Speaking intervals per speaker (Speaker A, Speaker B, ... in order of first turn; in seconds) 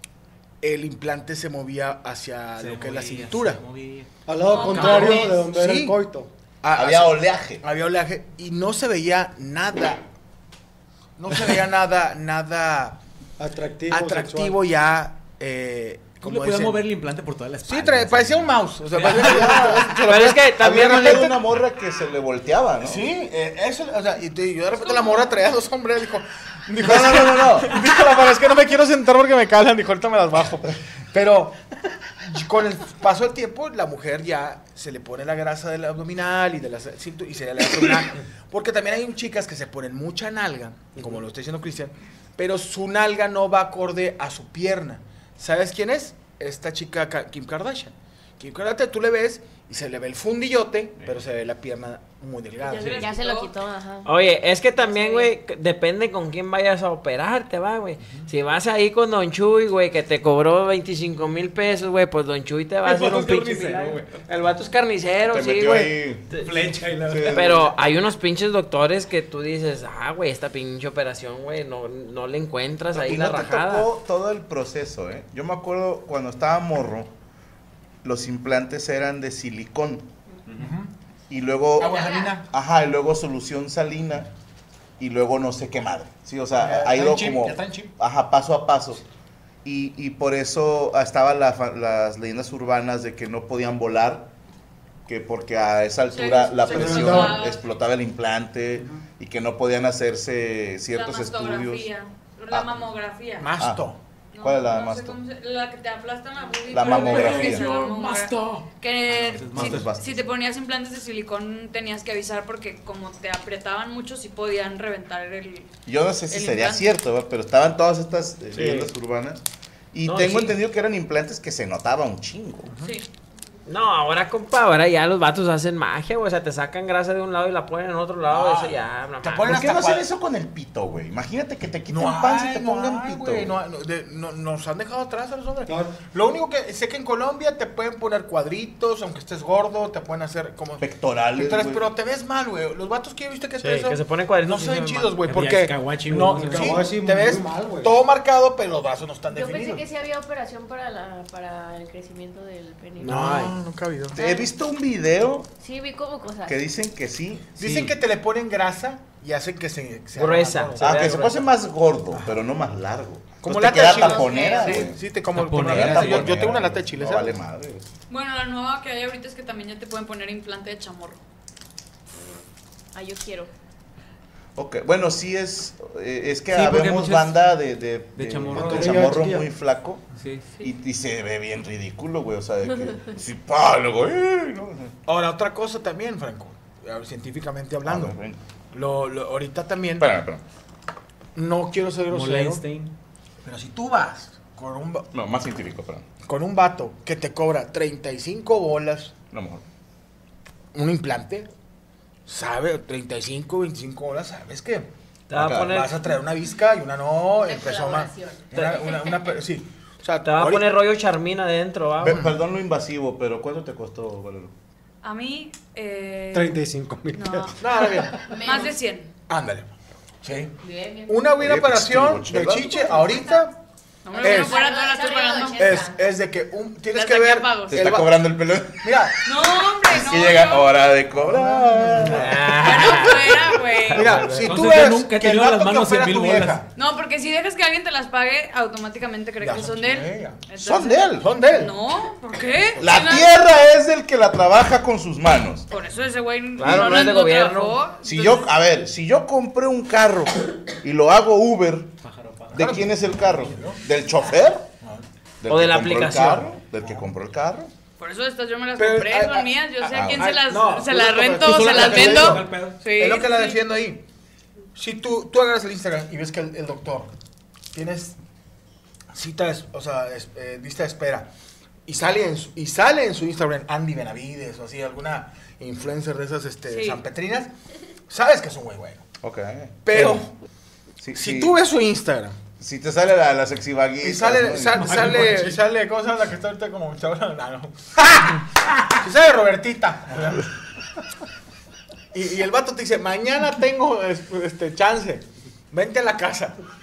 Speaker A: 0.6-3.6, 4.7-6.0, 6.6-10.0, 11.2-13.0, 13.9-16.9, 17.6-21.3, 22.8-31.6, 32.2-53.1, 80.6-80.9, 81.8-82.4, 86.5-87.9, 103.4-104.0, 122.7-122.9, 128.2-130.1, 131.9-149.8, 153.0-154.2, 157.6-161.2, 163.4-167.4, 185.1-188.2, 188.7-190.1, 191.3-192.6, 193.4-195.1, 196.2-199.1, 200.7-201.5, 202.3-204.9, 205.7-210.7, 212.0-212.3, 217.6-218.3, 219.3-219.7, 220.2-220.5, 221.1-223.5, 224.2-224.6, 225.6-228.2, 228.8-229.2, 231.1-232.4, 233.9-236.7, 239.4-240.4, 241.2-241.7, 252.5-253.8, 256.8-257.1, 258.8-264.0, 264.8-267.1, 267.7-268.2, 269.1-271.3, 271.9-277.5, 278.1-279.0, 279.8-280.3, 281.1-282.4, 284.0-288.3, 289.0-290.4, 292.1-296.6
Speaker B: 2.6-4.1, 16.2-19.2, 62.8-64.2, 66.3-67.6, 80.5-80.7, 107.2-108.3, 109.1-109.9, 145.2-146.9, 165.3-166.4, 176.5-177.4, 178.2-179.1, 180.2-180.6, 192.1-192.9, 234.4-236.6, 252.0-253.7, 261.8-262.8, 284.8-285.6
Speaker C: 4.3-6.3, 13.4-14.6, 96.7-97.4, 135.7-135.9, 146.3-147.9, 178.5-179.5, 216.3-218.0
Speaker D: 4.5-5.4, 24.8-25.3, 52.6-53.5, 96.1-97.7, 100.9-103.5, 104.3-115.7, 116.3-116.9, 168.1-171.2, 215.0-216.6, 217.1-217.6, 218.3-219.1, 224.0-225.8, 226.9-227.9, 229.2-230.7, 232.6-234.2, 236.7-243.4, 245.7-248.5, 258.0-263.6, 276.7-277.0
Speaker E: 6.7-7.6, 19.1-20.1, 20.6-23.1, 26.8-27.8, 65.3-66.2, 67.1-67.7, 72.9-77.1, 78.0-80.1, 81.3-84.3, 85.0-89.0, 89.6-94.3, 95.1-101.9, 102.5-102.9, 103.6-103.9, 104.4-105.2, 106.7-107.7, 109.4-110.3, 115.8-122.7, 129.4-133.5, 140.8-141.9, 154.1-155.5, 156.4-157.6, 160.8-165.0, 165.6-167.9, 174.6-180.1, 180.6-184.9, 187.8-188.4, 190.0-190.4, 195.1-196.1, 199.3-199.6, 205.3-205.8, 212.0-214.5, 221.3-223.0, 227.7-233.1, 240.5-241.3, 242.8-245.7, 246.6-247.1, 248.0-251.9, 252.5-254.7, 255.4-257.7, 259.9-260.3, 279.2-280.3, 281.0-281.6, 282.6-284.9
Speaker F: 20.0-21.4, 54.0-66.5, 67.2-73.9, 118.5-118.9, 120.0-120.6, 123.7-129.6, 143.6-145.2, 153.0-153.5, 160.2-161.5, 205.3-206.0, 210.2-212.2, 232.0-234.5, 246.6-247.8, 255.5-256.5
Speaker G: 52.9-54.1, 54.9-55.3, 81.8-82.3, 149.3-153.4, 154.2-154.5, 155.6-156.6, 163.8-164.9, 172.9-173.5, 207.3-209.4, 218.2-218.7, 220.6-221.3, 224.1-226.0